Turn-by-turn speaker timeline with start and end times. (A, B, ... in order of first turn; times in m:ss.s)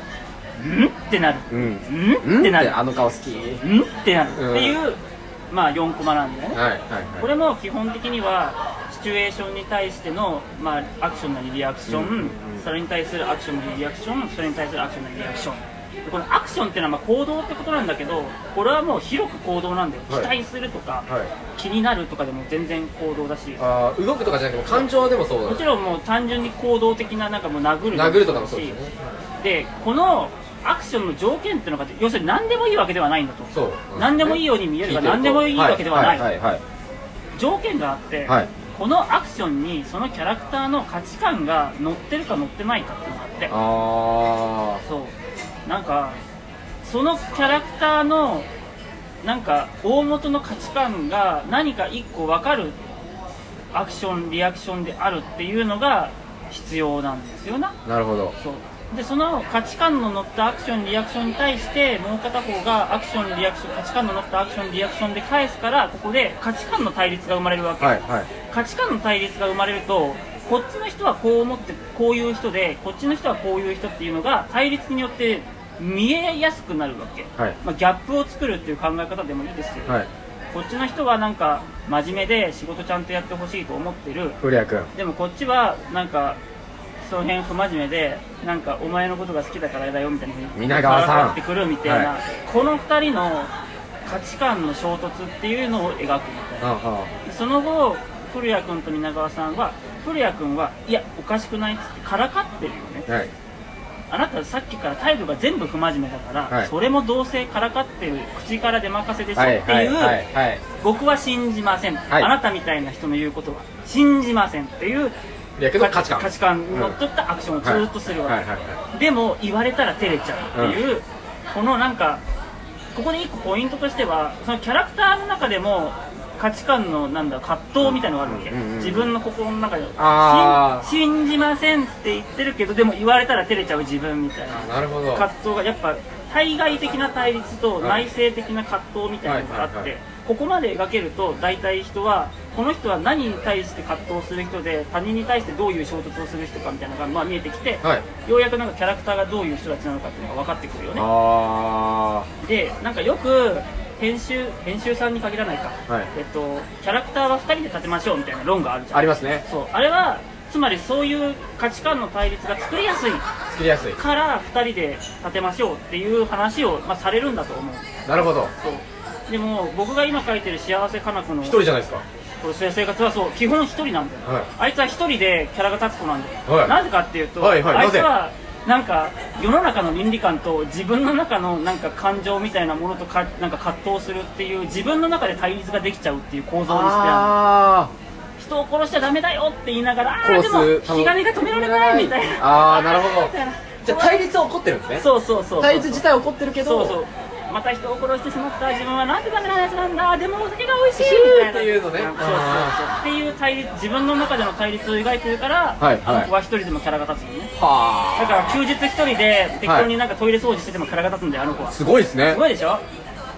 0:00.6-0:02.8 A
0:01.5-0:03.6 B
0:03.6-0:06.6 A
0:04.3-0:04.8 B
0:06.5-0:07.3 B
0:07.2-0:23.6 A
0:11.9-0:12.7 B
0:23.6-0:25.6 B
0:25.4-0:28.8 A
0:27.9-0:29.0 B
0:29.4-0:36.3 A
0:33.5-0:36.6 B
0:37.4-0:43.5 A
0:43.5-0:44.8 B
0:44.8-0:45.1 A
0:45.7-0:46.2 A
0:46.8-0:48.5 A
0:49.2-0:52.8 A
0:53.7-0:57.8 A
0:57.9-0:58.4 B
0:58.4-1:20.0 A
1:07.8-1:08.3 B
1:20.5-1:24.4 A
1:24.4-1:24.9 B
1:25.0-1:26.4 A
1:27.0-1:33.5 A
1:30.6-1:32.1 B
1:34.1-1:36.7 A
1:36.6-1:37.1 B
1:37.2-1:43.1 A
1:44.1-1:50.2 A
1:49.4-1:50.6 B
1:50.8-1:55.2 A
1:55.6-1:57.0 B
1:55.8-1:58.4 A
1:57.6-1:58.8 B
1:58.9-2:02.2 A
2:00.5-2:00.8 B
2:02.9-2:31.1 A
2:07.8-2:09.1 B
2:10.0-2:10.9 B
2:14.5-2:15.3 B
2:17.8-2:18.1 B
2:19.2-2:19.9 B
2:30.9-2:32.3 B
2:32.4-2:43.2 A
2:38.9-2:39.4 B
2:43.5-2:44.0 B
2:44.0-2:47.9 A
2:48.1-2:48.5 B
2:48.5-2:51.6 A
2:51.4-2:52.0 B
2:52.4-3:07.4 A
2:56.5-2:56.8 B
2:57.4-2:58.1 B
3:06.7-3:07.9 B
3:08.4-3:14.3 A
3:10.2-3:13.3 B
3:13.8-3:17.0 B
3:15.0-3:16.0 A
3:16.6-3:27.5 A
3:21.0-3:22.8 B
3:25.8-3:26.3 B
3:27.6-3:28.6 B
3:28.2-3:32.8 A
3:29.6-3:29.9 B
3:31.7-3:32.4 B